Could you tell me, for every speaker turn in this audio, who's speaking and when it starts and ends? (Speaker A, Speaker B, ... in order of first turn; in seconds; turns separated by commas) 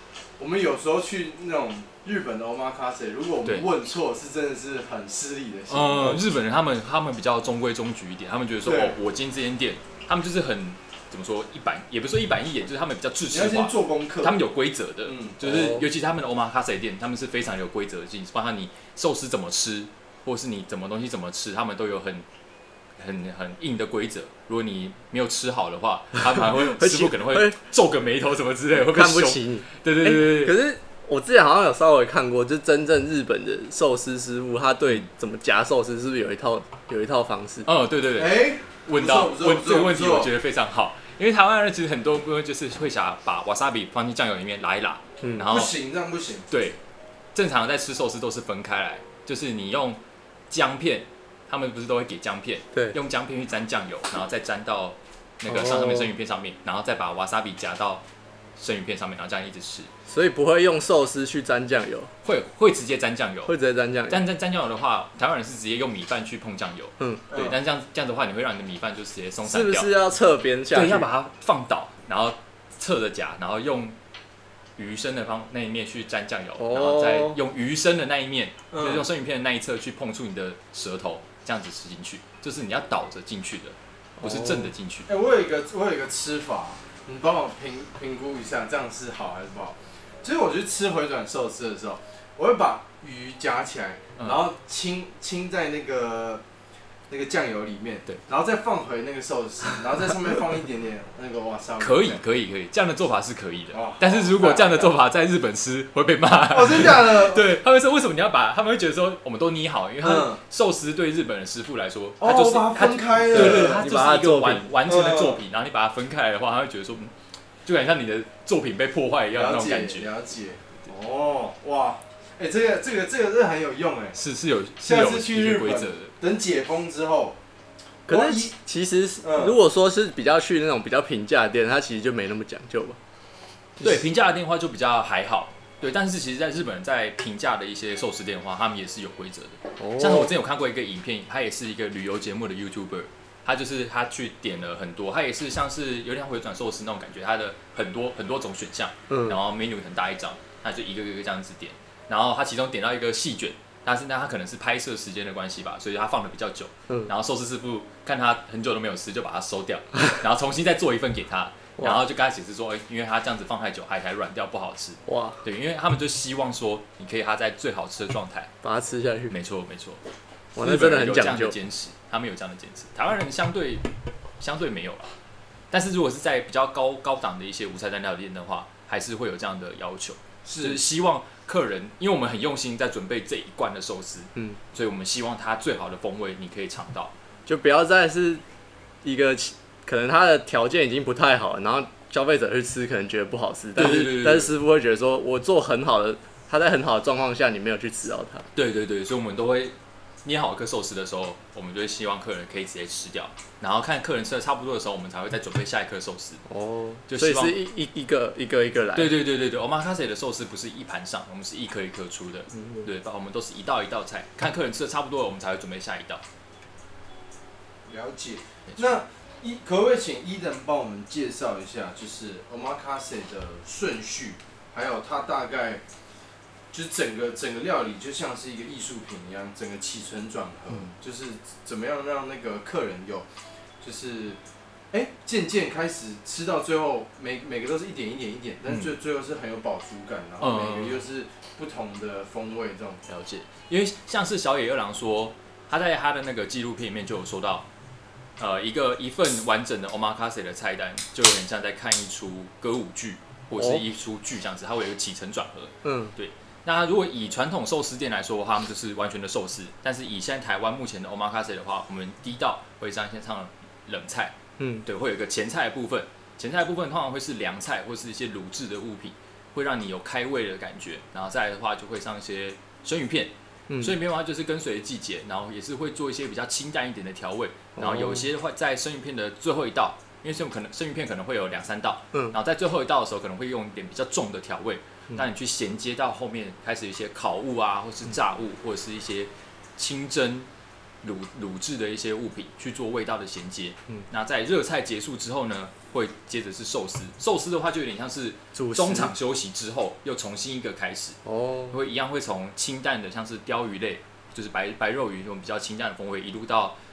Speaker A: 0.4-6.3, Speaker B: 5.7-22.2, Speaker A: 8.7-8.9, Speaker A: 13.3-14.4, Speaker A: 15.1-15.4, Speaker C: 15.4-15.8, Speaker B: 23.0-30.6, Speaker C: 26.3-27.6, Speaker C: 28.8-37.7, Speaker B: 37.6-45.7, Speaker A: 38.2-40.3, Speaker A: 45.5-46.5, Speaker B: 46.5-46.8, Speaker B: 47.4-58.0, Speaker C: 55.5-56.0, Speaker B: 58.6-59.9, Speaker C: 60.1-62.1, Speaker B: 62.2-63.5, Speaker C: 63.5-64.2, Speaker B: 64.1-69.9, Speaker C: 69.4-71.1, Speaker B: 70.7-74.0, Speaker B: 74.8-85.1, Speaker C: 76.6-77.4, Speaker A: 78.7-79.0, Speaker C: 84.2-84.7, Speaker A: 85.1-96.4, Speaker A: 97.1-102.2, Speaker B: 101.8-117.1, Speaker A: 103.7-104.9, Speaker A: 106.5-107.5, Speaker A: 110.0-110.4, Speaker A: 112.2-113.9, Speaker C: 113.3-114.7, Speaker A: 114.8-115.4, Speaker B: 117.7-120.1, Speaker A: 119.4-124.2, Speaker B: 124.2-126.1, Speaker A: 124.8-127.4, Speaker C: 128.1-133.0, Speaker A: 128.1-128.5, Speaker A: 129.2-129.6, Speaker B: 133.8-168.5, Speaker C: 139.8-140.3, Speaker C: 149.1-149.3, Speaker C: 165.1-165.4, Speaker C: 168.6-169.3, Speaker B: 169.3-170.0, Speaker C: 170.6-171.6, Speaker B: 170.6-173.9, Speaker B: 174.4-175.1, Speaker B: 175.7-187.1, Speaker A: 180.4-180.8, Speaker C: 187.5-188.4, Speaker C: 189.0-198.5, Speaker B: 193.8-194.5, Speaker B: 198.6-206.4, Speaker C: 206.5-209.1, Speaker B: 207.1-207.6, Speaker B: 208.9-216.2, Speaker A: 217.9-225.8, Speaker A: 226.7-233.3, Speaker A: 233.8-234.4, Speaker A: 234.9-243.0, Speaker B: 240.4-241.0, Speaker B: 243.1-247.7, Speaker B: 248.4-290.5, Speaker C: 253.6-253.8, Speaker C: 255.8-256.1, Speaker C: 264.6-264.8, Speaker C: 277.8-278.3, Speaker B: 291.0-301.2, Speaker C: 298.6-299.1, Speaker C: 301.3-301.8, Speaker B: 301.7-306.8